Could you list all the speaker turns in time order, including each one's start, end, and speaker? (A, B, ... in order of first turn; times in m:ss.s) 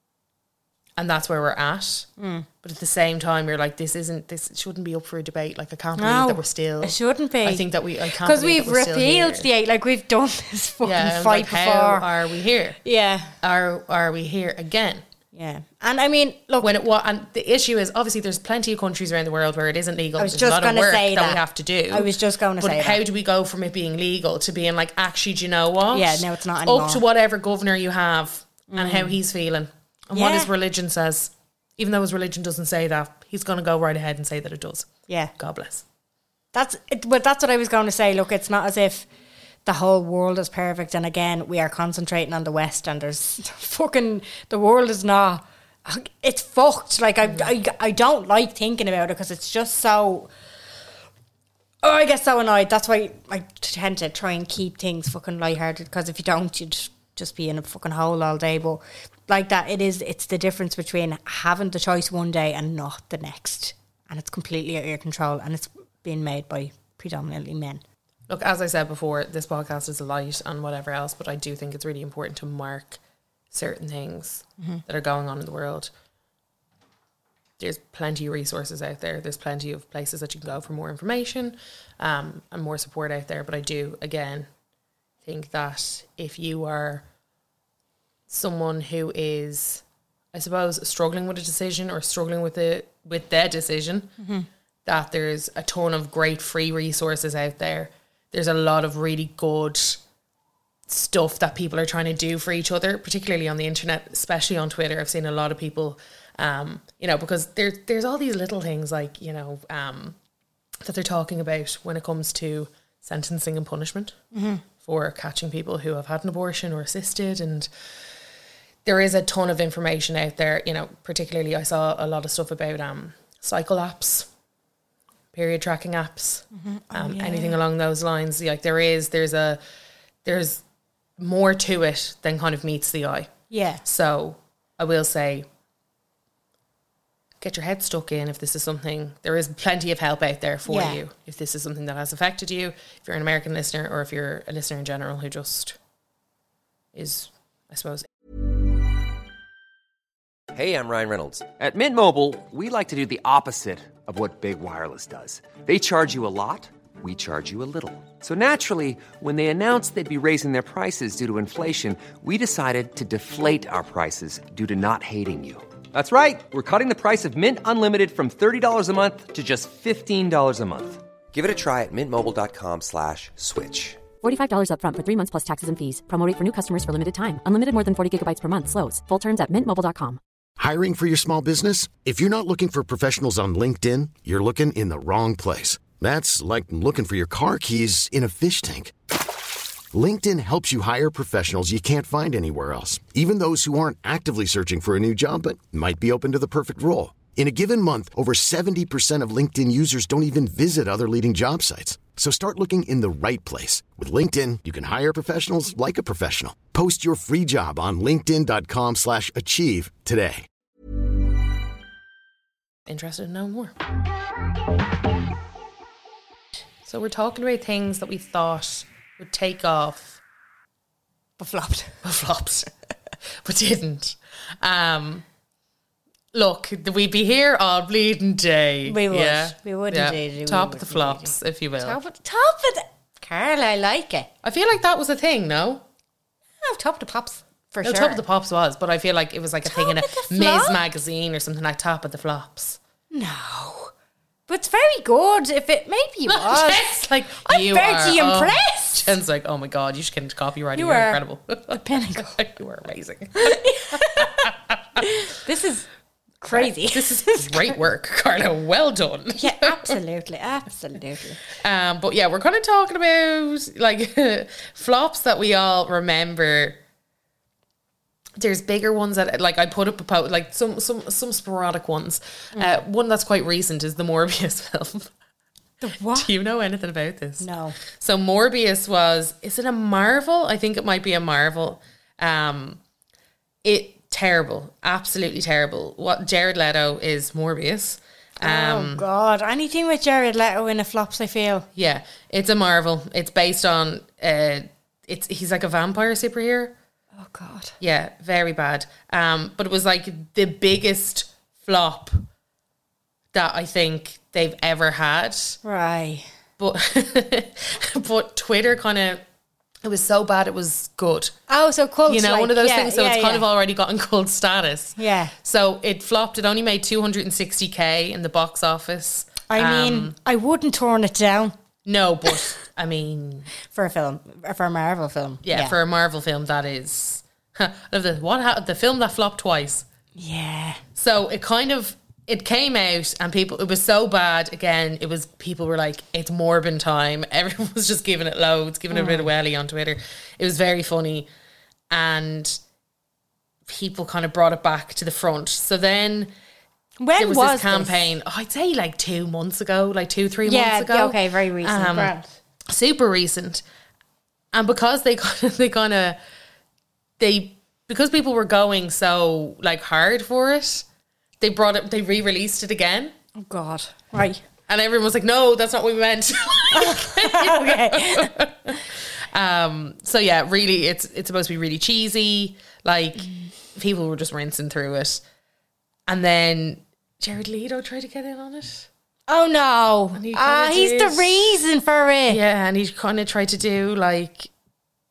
0:01.0-0:02.1 A
0:02.2-0:02.5 B
0:02.6-0:09.5 A
0:06.0-0:07.6 B
0:08.2-0:12.1 B
0:10.8-0:12.8 A
0:12.8-0:13.4 B
0:13.4-0:15.0 A
0:15.3-0:16.7 B
0:16.6-0:35.8 A
0:20.2-0:23.0 B
0:25.9-0:27.0 B
0:28.7-0:29.2 B
0:30.1-0:30.5 B
0:35.1-0:35.3 B
0:36.5-0:39.1 B
0:39.6-0:50.3 B
0:47.2-0:47.5 A
0:51.8-1:07.8 B
1:08.3-1:13.0 A
1:13.5-1:15.9 A
1:17.6-1:24.5 A
1:25.2-1:27.1 A
1:28.3-1:34.1 A
1:34.2-1:34.5 B
1:34.8-1:40.0 A
1:40.9-1:50.2 A
1:50.8-1:54.2 A
1:54.3-1:54.6 B
1:54.8-1:57.7 A
1:58.8-2:04.3 A
2:05.3-2:09.6 A
2:06.5-2:07.6 B
2:10.2-2:10.6 A
2:11.2-2:13.3 A
2:13.5-2:13.8 B
2:13.8-2:15.5 A
2:17.4-2:25.8 A
2:20.7-2:21.0 B
2:26.9-2:28.1 A
2:30.5-2:54.0 C
2:54.2-3:00.2 D
3:00.6-3:08.9 E
3:09.9-3:30.5 E
3:32.9-3:33.8 A
3:36.8-3:40.2 A
3:41.4-3:42.0 B
3:42.0-3:42.7 A
3:43.4-3:45.2 A
3:46.3-3:52.0 A
3:48.8-3:54.3 B
3:54.4-3:55.8 A
3:56.6-3:58.2 B
3:57.8-4:02.8 A
3:59.6-4:00.8 B
4:03.1-4:03.9 B
4:04.5-4:09.2 B
4:06.3-4:15.0 A
4:10.8-4:11.2 B
4:11.7-4:12.4 B
4:13.4-4:15.9 B
4:16.4-4:17.8 B
4:16.5-4:20.0 A
4:19.4-4:21.4 B
4:21.6-4:26.8 A
4:28.4-4:35.1 A
4:32.6-4:32.8 B
4:35.8-4:36.3 B
4:36.1-4:42.8 A
4:37.4-4:37.8 B
4:43.6-4:49.0 A
4:48.4-4:51.7 B
4:51.8-4:56.8 A
4:57.1-4:57.8 B
4:57.8-5:02.2 A
5:03.3-5:05.6 A
5:05.6-5:06.3 B
5:06.6-5:09.2 A
5:09.8-5:11.4 A
5:11.5-5:13.4 B
5:12.1-5:20.1 A
5:15.0-5:15.3 B
5:19.5-5:21.5 B
5:21.8-5:23.5 A
5:23.6-5:25.8 B
5:25.4-5:29.9 A
5:30.2-5:30.8 B
5:31.0-5:41.3 A
5:38.9-5:39.3 B
5:41.9-5:42.6 A
5:43.6-5:46.3 A
5:47.0-5:48.1 B
5:47.2-5:52.1 A
5:50.5-5:52.3 B
5:52.7-5:53.6 A
5:54.5-5:56.2 A
5:57.2-6:00.9 A
6:01.4-6:03.1 A
6:03.4-6:04.4 B
6:04.7-6:15.2 A
6:06.7-6:08.3 B
6:16.1-6:18.9 A
6:19.3-6:22.4 B
6:20.1-6:21.6 A
6:22.3-6:24.5 A